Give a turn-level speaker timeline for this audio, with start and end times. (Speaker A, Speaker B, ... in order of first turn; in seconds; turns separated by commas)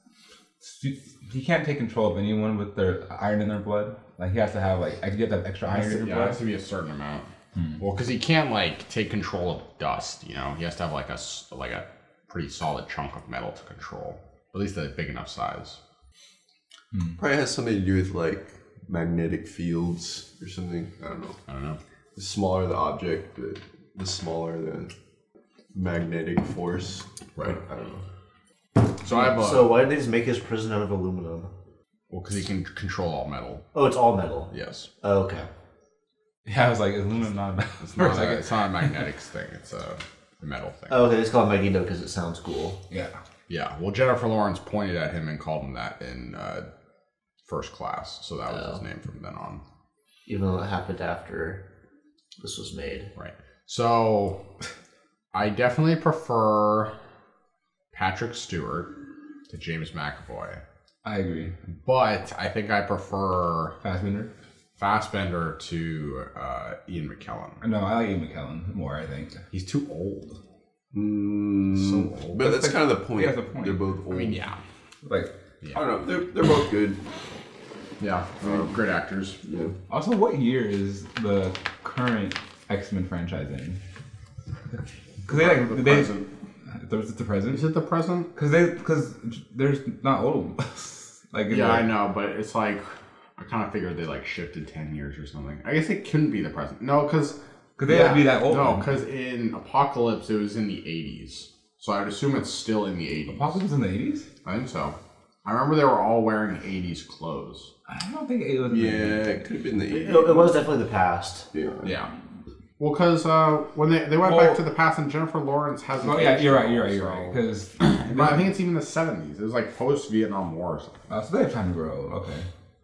Speaker A: 0.6-6.4, Speaker B: 5.7-15.8, Speaker A: 7.6-7.8, Speaker A: 16.9-17.2, Speaker C: 17.2-21.4, Speaker B: 21.5-21.8, Speaker C: 22.2-24.9, Speaker C: 25.7-28.0, Speaker B: 29.0-29.7, Speaker D: 29.1-31.5, Speaker B: 32.1-33.7, Speaker D: 33.7-34.5, Speaker B: 34.5-34.9, Speaker D: 35.0-35.5, Speaker A: 36.5-38.9, Speaker B: 37.8-41.0, Speaker D: 40.9-42.8, Speaker A: 42.9-43.2, Speaker B: 43.5-46.7, Speaker B: 47.5-49.6, Speaker D: 48.5-48.8, Speaker D: 50.3-51.6, Speaker D: 52.4-53.1, Speaker B: 53.2-54.4, Speaker B: 55.3-56.9, Speaker B: 57.9-58.9, Speaker B: 59.5-60.6, Speaker A: 61.0-61.6, Speaker B: 61.9-63.8, Speaker A: 63.8-64.3, Speaker B: 64.8-67.6, Speaker A: 67.6-69.4, Speaker B: 69.5-70.4, Speaker C: 70.9-74.4, Speaker B: 71.7-72.4, Speaker A: 72.4-73.8, Speaker B: 74.1-74.6, Speaker A: 75.0-75.3, Speaker C: 75.7-77.0, Speaker B: 78.0-79.4, Speaker C: 78.4-78.7, Speaker C: 79.5-79.7, Speaker A: 79.9-83.8, Speaker A: 85.3-87.6, Speaker B: 85.3-86.3, Speaker B: 87.5-88.3, Speaker A: 88.3-91.9, Speaker B: 91.5-103.6, Speaker A: 97.8-98.9, Speaker A: 103.3-104.3, Speaker B: 104.4-107.7, Speaker A: 107.9-109.5, Speaker C: 108.7-110.6, Speaker D: 109.9-111.5, Speaker C: 111.5-111.9, Speaker B: 111.8-112.1, Speaker B: 112.8-121.0, Speaker A: 114.2-114.6, Speaker A: 116.0-118.5, Speaker A: 121.1-122.5